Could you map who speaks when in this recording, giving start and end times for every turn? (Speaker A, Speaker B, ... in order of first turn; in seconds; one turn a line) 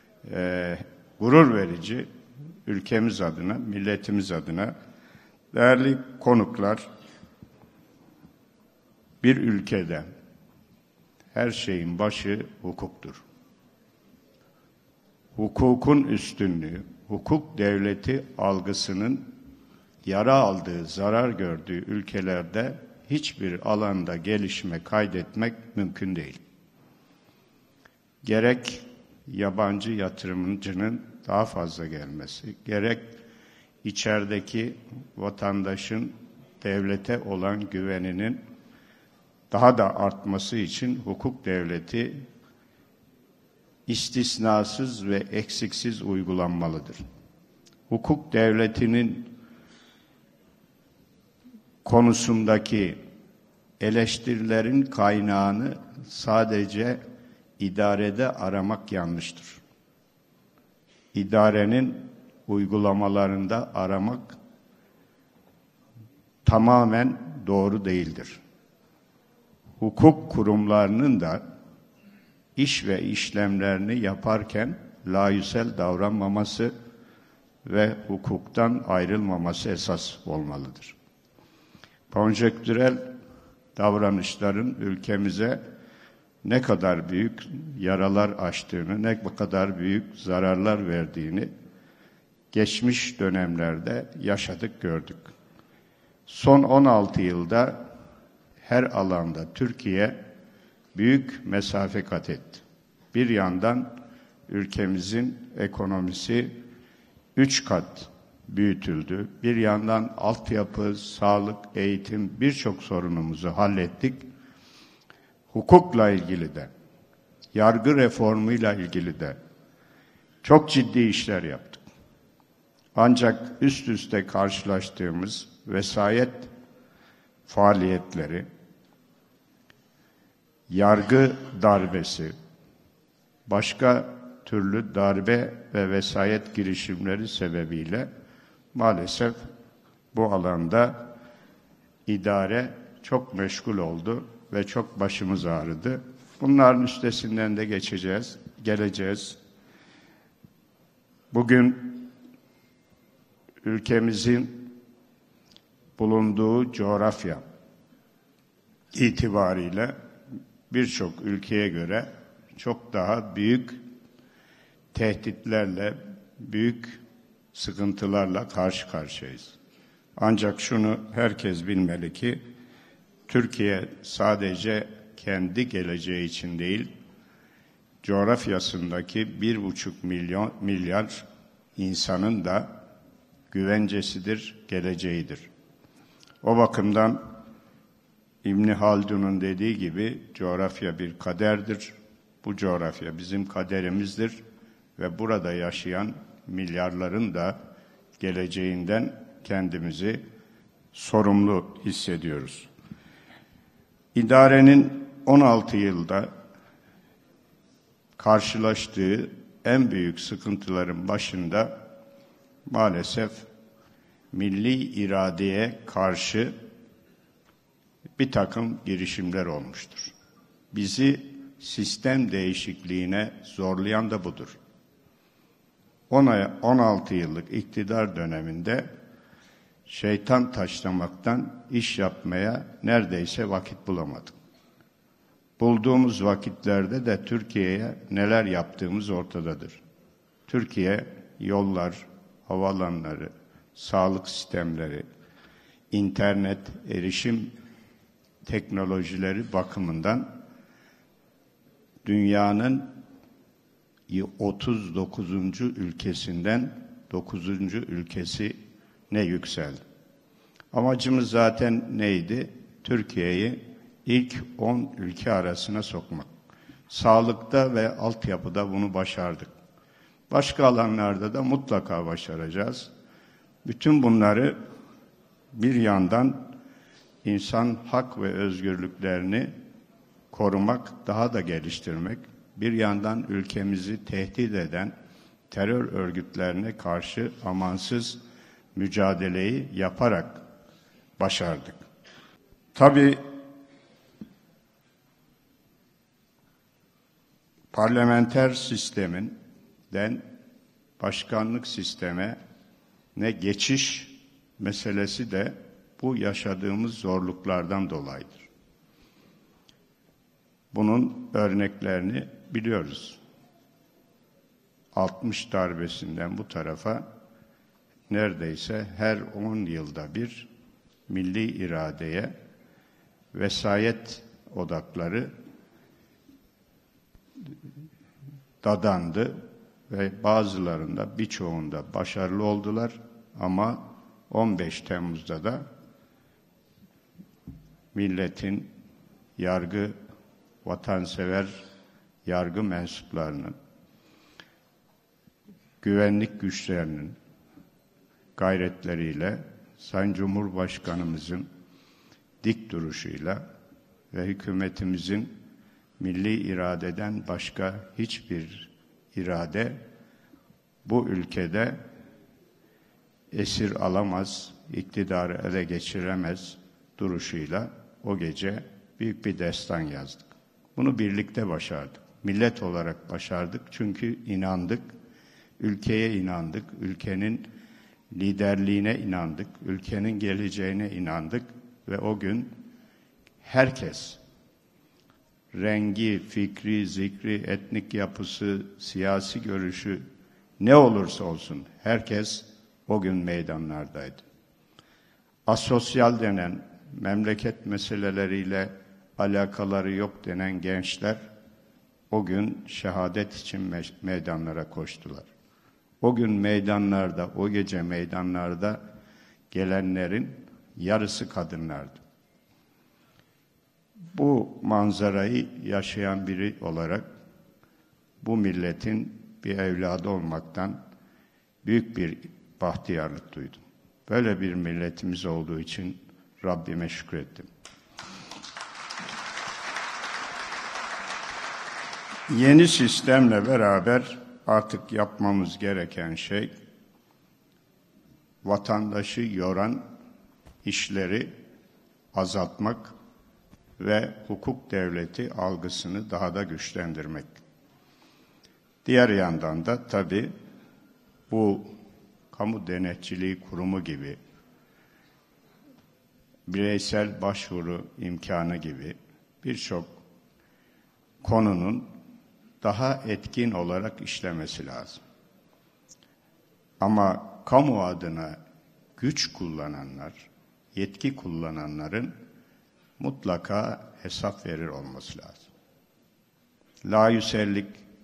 Speaker A: 0.2-2.1
Speaker A: 2.7-4.7
Speaker A: 5.5-6.8
Speaker A: 9.2-10.1
Speaker A: 11.3-13.2
Speaker A: 15.4-19.4
Speaker A: 20.1-26.4
Speaker A: 28.2-33.1
Speaker A: 33.8-38.4
Speaker A: 39.5-42.2
Speaker A: 43.9-47.0
Speaker A: 47.9-49.3
Speaker A: 51.8-53.0
Speaker A: 53.8-57.0
Speaker A: 57.6-59.6
Speaker A: 61.1-64.4
Speaker A: 66.5-68.4
Speaker A: 69.8-71.4
Speaker A: 72.6-76.7
Speaker A: 77.6-81.0
Speaker A: 82.1-83.1
Speaker A: 83.8-85.6
Speaker A: 86.4-91.5
Speaker A: 92.5-95.3
Speaker A: 96.3-97.8
Speaker A: 98.6-100.2
Speaker A: 100.9-103.9
Speaker A: 104.5-106.5
Speaker A: 107.4-114.2
Speaker A: 115.5-116.7
Speaker A: 117.5-119.4
Speaker A: 120.4-121.8
Speaker A: 123.0-126.5
Speaker A: 127.5-128.5
Speaker A: 130.7-132.3
Speaker A: 133.5-138.1
Speaker A: 138.7-139.4
Speaker A: 140.1-141.1
Speaker A: 142.1-149.4
Speaker A: 151.3-152.1
Speaker A: 153.6-154.8
Speaker A: 156.0-157.4
Speaker A: 158.9-159.9
Speaker A: 160.7-163.8
Speaker A: 164.9-167.0
Speaker A: 167.5-169.6
Speaker A: 170.2-172.4
Speaker A: 173.3-176.9
Speaker A: 178.0-182.8
Speaker A: 183.5-185.5
Speaker A: 186.4-187.3
Speaker A: 188.4-194.4
Speaker A: 195.0-197.6
Speaker A: 198.2-200.2
Speaker A: 200.9-202.7
Speaker A: 204.2-206.3
Speaker A: 208.2-211.8
Speaker A: 212.7-213.5
Speaker A: 214.3-216.6
Speaker A: 218.2-220.1
Speaker A: 220.7-224.6
Speaker A: 226.1-228.9
Speaker A: 229.9-234.4
Speaker A: 235.6-239.8
Speaker A: 240.5-245.1
Speaker A: 245.9-247.5
Speaker A: 248.4-250.3
Speaker A: 252.1-252.9
Speaker A: 254.1-258.6
Speaker A: 259.1-259.8
Speaker A: 260.7-266.3
Speaker A: 266.9-269.5
Speaker A: 270.3-272.9
Speaker A: 273.6-274.6
Speaker A: 275.5-276.5
Speaker A: 277.2-279.5
Speaker A: 280.3-284.9
Speaker A: 285.5-288.2
Speaker A: 288.8-290.4
Speaker A: 291.2-291.8
Speaker A: 292.8-293.2
Speaker A: 297.7-299.4
Speaker A: 299.9-300.3
Speaker A: 301.0-302.4
Speaker A: 303.2-308.5
Speaker A: 310.7-313.2
Speaker A: 314.9-317.0
Speaker A: 318.1-320.5
Speaker A: 321.1-322.3
Speaker A: 323.3-325.3
Speaker A: 328.6-335.6
Speaker A: 337.9-338.7
Speaker A: 339.4-339.9
Speaker A: 340.6-341.6
Speaker A: 342.3-343.6
Speaker A: 345.8-347.2
Speaker A: 348.4-351.5
Speaker A: 352.4-353.4
Speaker A: 354.1-355.3
Speaker A: 356.0-359.8
Speaker A: 360.9-361.8
Speaker A: 363.3-374.8
Speaker A: 375.6-377.5
Speaker A: 378.1-382.6
Speaker A: 383.4-384.2
Speaker A: 385.5-390.1
Speaker A: 390.6-394.2
Speaker A: 395.5-401.2
Speaker A: 402.1-405.3
Speaker A: 406.0-408.8
Speaker A: 409.5-412.0
Speaker A: 414.1-417.1
Speaker A: 418.2-420.8
Speaker A: 421.6-427.5
Speaker A: 432.3-436.5
Speaker A: 438.4-439.8
Speaker A: 440.6-441.3
Speaker A: 442.1-442.9
Speaker A: 443.8-447.4
Speaker A: 448.9-450.3
Speaker A: 451.3-451.7
Speaker A: 452.3-454.2
Speaker A: 456.5-460.0
Speaker A: 461.2-461.9
Speaker A: 462.6-465.0
Speaker A: 466.8-468.4
Speaker A: 469.0-472.1
Speaker A: 473.0-475.5
Speaker A: 476.8-477.8